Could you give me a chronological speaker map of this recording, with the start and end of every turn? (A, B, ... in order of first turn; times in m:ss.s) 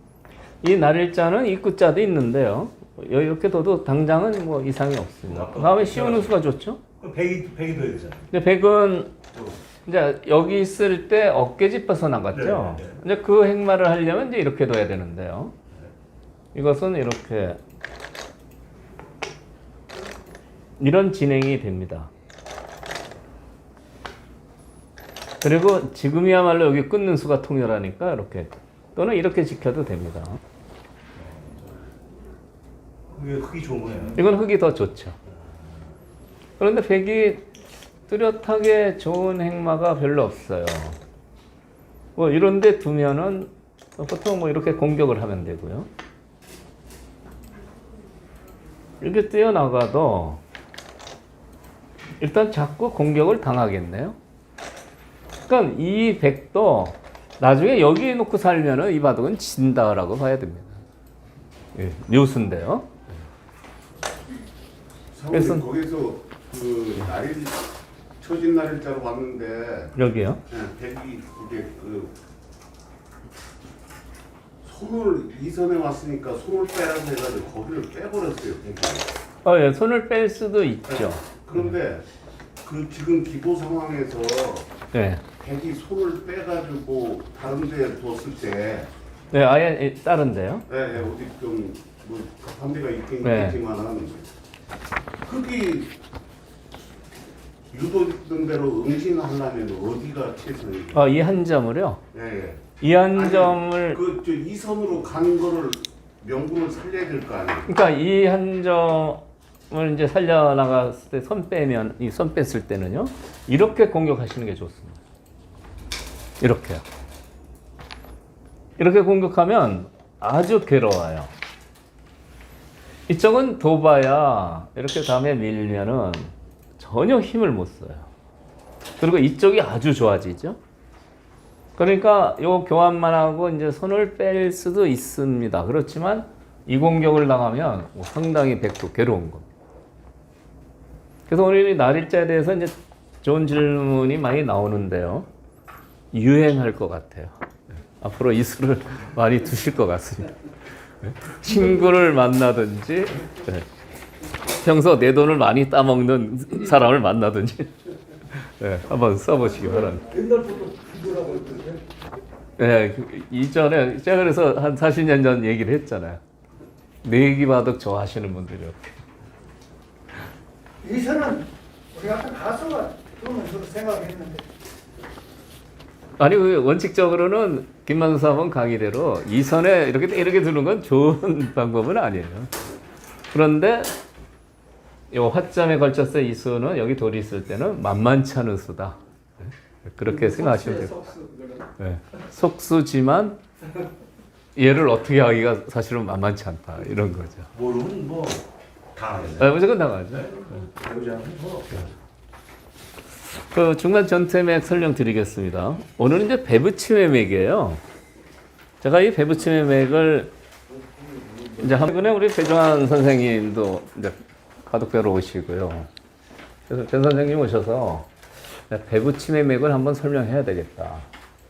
0:00.6-0:06.8 A
0:05.2-0:06.4 B
0:07.0-0:08.3 B
0:08.3-0:09.1 A
0:09.9-0:15.5 A
0:12.3-0:13.0 B
0:16.5-0:17.6 A
0:20.8-0:22.1 A
0:25.4-0:30.4 A
0:31.2-0:31.6 B
0:33.1-0:34.2 B
0:34.2-0:35.2 A
0:36.6-0:37.5 A
0:38.1-0:41.0 A
0:42.2-0:45.9 A
0:49.0-0:50.4 A
0:52.2-0:54.2 A
0:55.5-1:00.8 A
1:01.8-1:02.9 A
1:05.1-1:07.7 C
1:05.3-1:05.7 A
1:08.2-1:09.9 C
1:10.0-1:10.4 A
1:10.5-1:12.1 C
1:14.6-1:19.1 C
1:19.4-1:21.6 A
1:20.9-1:22.1 C
1:22.6-1:24.7 C
1:24.9-1:25.2 A
1:25.4-1:28.9 C
1:29.3-1:30.7 A
1:30.7-1:34.3 C
1:33.2-1:33.6 A
1:35.2-1:35.9 C
1:37.7-1:41.0 C
1:40.9-1:42.0 A
1:42.1-1:47.7 C
1:42.8-1:44.0 A
1:47.7-1:55.0 A
1:56.4-1:56.8 A
1:58.8-2:01.3 A
2:03.1-2:08.1 A
2:09.0-2:10.6 A
2:11.8-2:19.5 A
2:21.3-2:25.3 A
2:26.1-2:27.3 A
2:28.0-2:30.4 A
2:31.0-2:33.7 A
2:34.5-2:37.7 A
2:38.3-2:40.1 A
2:40.1-2:41.8 B
2:42.6-2:46.2 A
2:47.0-2:49.0 A
2:50.8-2:54.4 D
2:56.2-3:02.5 A
3:03.3-3:03.9 A
3:05.1-3:11.2 A
3:11.8-3:13.4 A
3:14.6-3:17.5 A
3:17.5-3:21.9 B
3:19.4-3:20.4 A
3:23.2-3:27.8 A
3:28.8-3:30.3 A
3:31.6-3:35.9 A
3:36.7-3:41.1 A